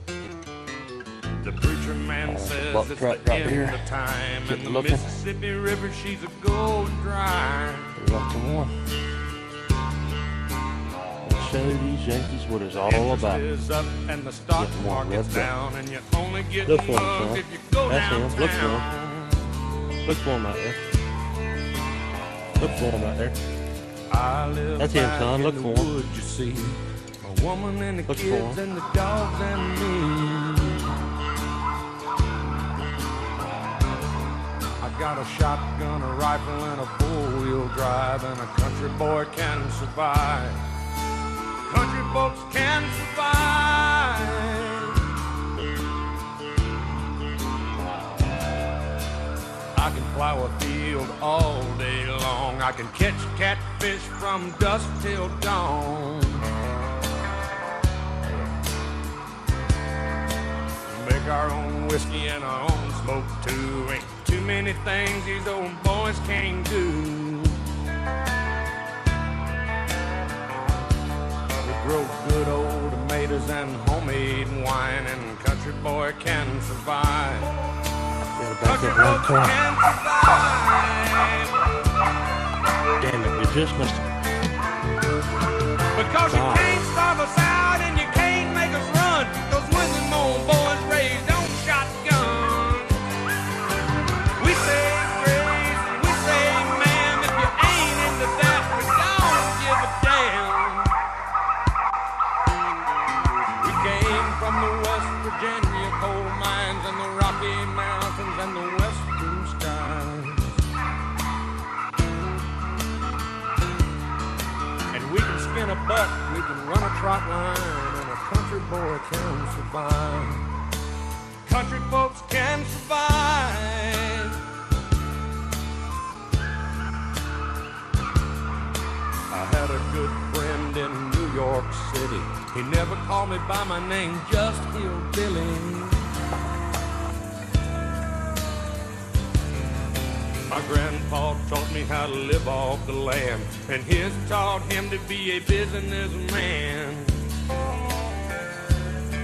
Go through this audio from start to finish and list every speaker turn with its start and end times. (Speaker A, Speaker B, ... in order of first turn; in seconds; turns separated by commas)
Speaker A: 1.4-7.9, Speaker B: 2.2-3.8, Speaker B: 4.5-5.1, Speaker B: 8.0-8.7, Speaker B: 11.2-13.4, Speaker A: 12.8-19.5, Speaker B: 14.6-15.5, Speaker B: 16.6-18.9, Speaker B: 20.0-20.8, Speaker B: 22.6-23.4, Speaker A: 24.1-30.9, Speaker B: 24.8-25.9, Speaker B: 28.1-28.6, Speaker A: 34.8-40.6, Speaker A: 41.6-45.1, Speaker A: 49.7-56.5, Speaker A: 60.9-67.6, Speaker A: 71.6-77.5, Speaker B: 78.4-79.6, Speaker A: 78.6-81.5, Speaker B: 83.0-84.0, Speaker A: 85.9-93.0, Speaker B: 86.3-86.8, Speaker A: 94.4-101.0, Speaker A: 103.6-110.6, Speaker A: 114.9-120.5, Speaker A: 121.5-124.4, Speaker A: 129.3-136.1, Speaker A: 140.5-147.3